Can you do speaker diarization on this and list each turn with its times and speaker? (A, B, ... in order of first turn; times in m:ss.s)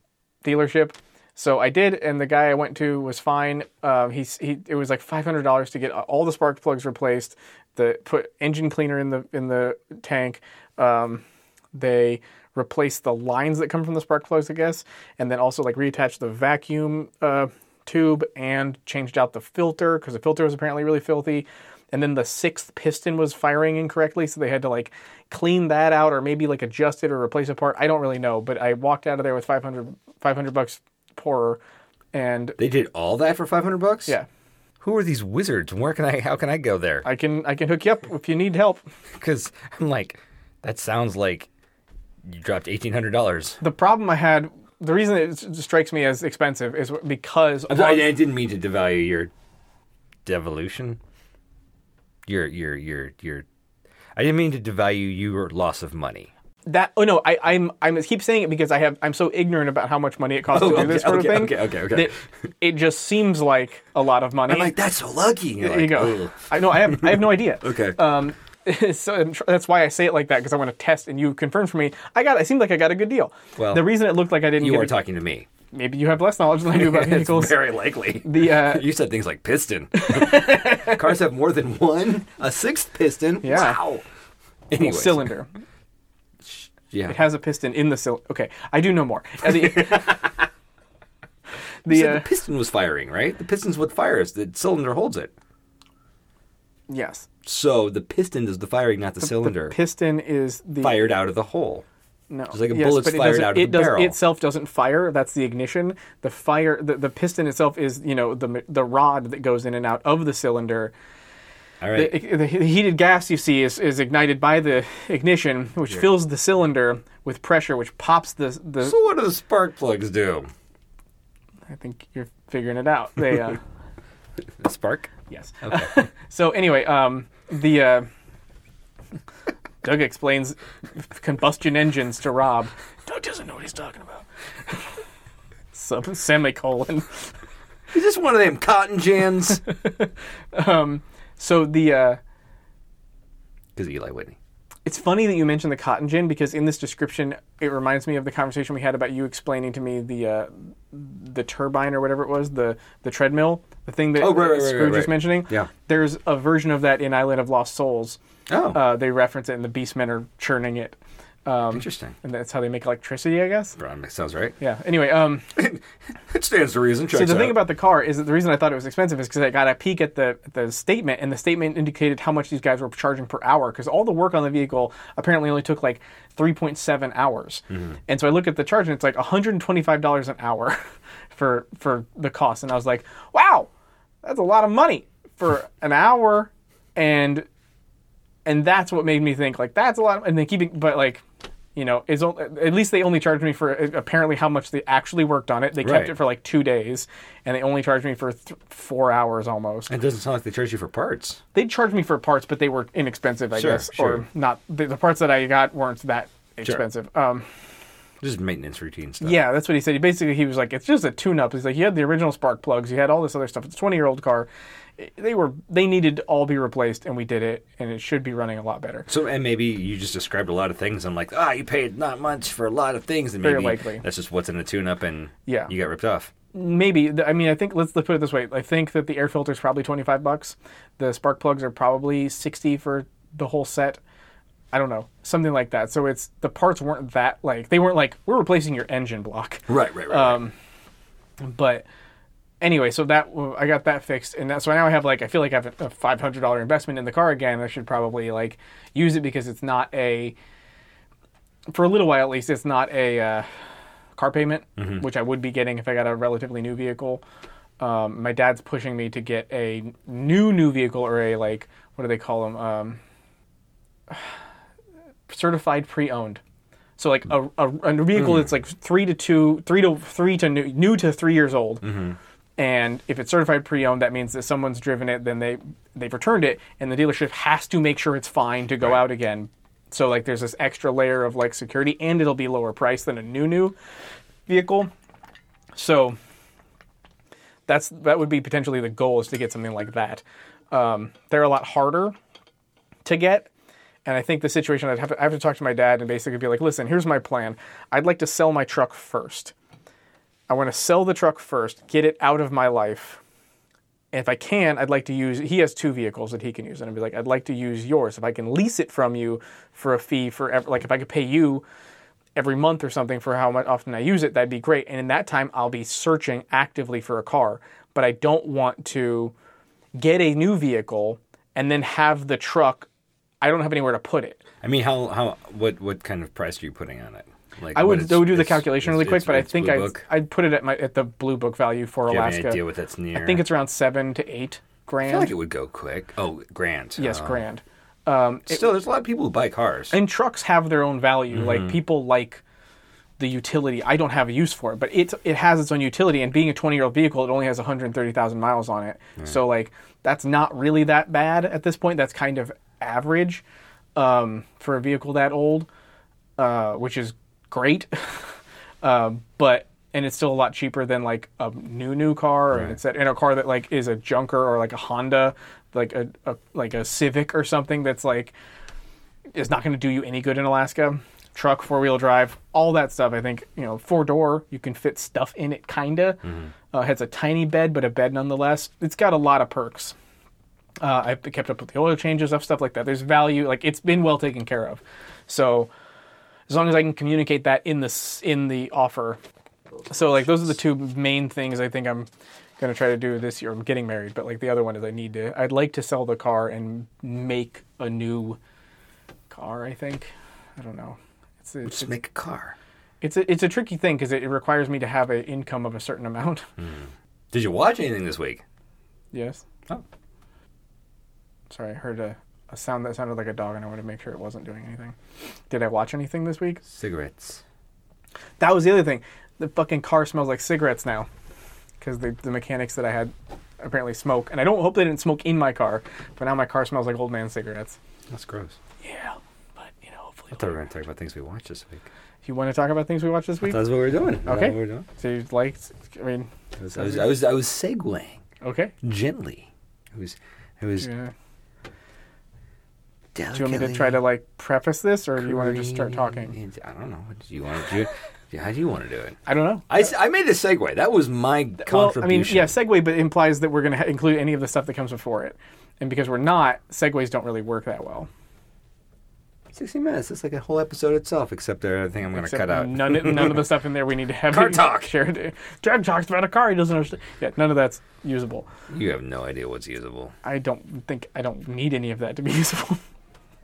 0:00.4-0:31.6 A
0:32.1-0:32.6 A
0:32.6-0:34.2 B
0:34.8-0:37.0 B
0:37.0-0:38.8 A
0:39.1-0:41.5 B
0:42.2-0:43.6 B
0:43.6-0:48.1 A
0:47.7-0:49.3 B
0:50.2-0:51.0 B
0:52.2-0:53.4 B
0:54.1-0:56.3 B
0:56.6-1:04.7 A
1:00.5-1:02.1 B
1:04.4-1:08.0 B
1:05.6-1:15.0 A
1:13.6-1:13.9 B
1:14.6-1:15.5 B
1:15.7-1:17.6 A
1:16.7-1:24.0 B
1:18.2-1:18.9 A
1:19.9-1:21.1 A
1:23.4-1:23.8 A
1:24.7-1:25.3 B
1:24.8-1:25.5 A
1:26.4-1:27.2 B
1:27.1-1:30.3 A
1:29.4-1:30.3 B
1:31.8-1:32.3 A
1:31.9-1:35.3 B
1:36.9-1:37.3 A
1:37.4-1:39.8 B
1:39.2-1:41.0 A
1:40.8-1:41.8 B
1:42.3-1:50.9 A
1:42.5-1:44.2 B
1:51.8-1:52.2 B
1:51.9-1:59.0 A
1:58.8-2:00.5 B
2:01.7-2:03.6 A
2:04.6-2:05.1 B
2:05.3-2:08.1 A
2:05.6-2:05.9 B
2:09.8-2:14.9 A
2:15.7-2:17.3 A
2:17.9-2:19.6 B
2:19.7-2:22.2 A
2:23.8-2:24.4 B
2:24.8-2:38.2 A
2:34.2-2:35.7 B
2:38.5-2:38.8 B
2:38.7-2:43.8 A
2:41.7-2:42.2 B
2:43.8-2:44.6 B
2:44.6-2:45.6 A
2:45.5-2:47.6 B
2:47.1-3:00.8 A
3:01.3-3:03.7 A
3:04.2-3:07.5 A
3:08.4-3:11.2 A
3:11.8-3:19.9 A
3:15.8-3:16.1 B
3:19.9-3:21.4 B
3:21.5-3:27.5 A
3:23.5-3:24.2 B
3:28.2-3:29.4 B
3:29.2-3:39.1 A
3:39.1-3:46.3 B
3:43.4-3:44.0 A
3:46.5-3:54.0 A
3:54.7-4:00.5 A
3:59.7-4:00.4 B
4:01.4-4:01.8 A
4:02.6-4:10.4 A
4:11.7-4:13.5 A
4:14.2-4:17.2 A
4:17.8-4:23.0 A
4:25.3-4:26.4 A
4:27.0-4:31.9 A
4:28.2-4:28.4 B
4:31.8-4:32.2 B
4:32.6-4:43.7 A
4:44.5-4:44.9 A
4:45.7-4:46.2 A
4:47.7-4:52.1 A
4:53.0-4:53.5 A
4:54.0-4:59.5 A
5:00.5-5:03.2 A
5:04.1-5:11.6 A
5:12.4-5:19.3 A
5:19.9-5:22.9 A
5:23.4-5:24.4 A
5:24.6-5:30.0 B
5:27.7-5:32.6 A
5:32.1-5:33.4 B
5:33.1-5:35.3 A
5:35.0-5:37.4 B
5:37.0-5:38.7 A
5:38.5-5:39.9 B
5:39.9-5:42.4 A
5:41.3-5:41.8 B
5:43.2-5:53.4 A
5:54.0-5:55.7 A
5:56.4-6:08.3 A
6:09.3-6:19.9 A
6:16.2-6:16.5 B
6:20.8-6:25.7 A
6:26.5-6:29.2 A
6:29.9-6:32.1 A
6:32.6-6:38.4 A
6:39.3-6:41.9 A
6:41.6-6:42.5 B
6:43.0-6:46.4 A
6:46.6-6:48.4 B
6:49.1-6:49.4 A
6:51.5-6:55.0 A
6:55.5-6:56.6 A
6:56.6-6:57.4 B
6:58.4-7:01.1 A
7:01.8-7:07.8 A
7:08.1-7:08.6 B
7:08.8-7:10.6 A
7:10.3-7:11.8 B
7:12.2-7:13.6 A
7:13.4-7:14.8 B
7:14.2-7:17.0 A
7:16.6-7:18.2 B
7:18.4-7:18.7 A
7:18.8-7:20.9 B
7:20.8-7:21.1 A
7:23.1-7:24.0 B
7:23.3-7:26.3 A
7:25.2-7:32.5 B
7:29.2-7:29.7 A
7:31.6-7:38.1 A
7:39.5-7:43.5 B
7:42.1-7:48.4 A
7:44.3-7:44.9 B
7:48.7-7:50.1 B
7:50.2-7:52.8 A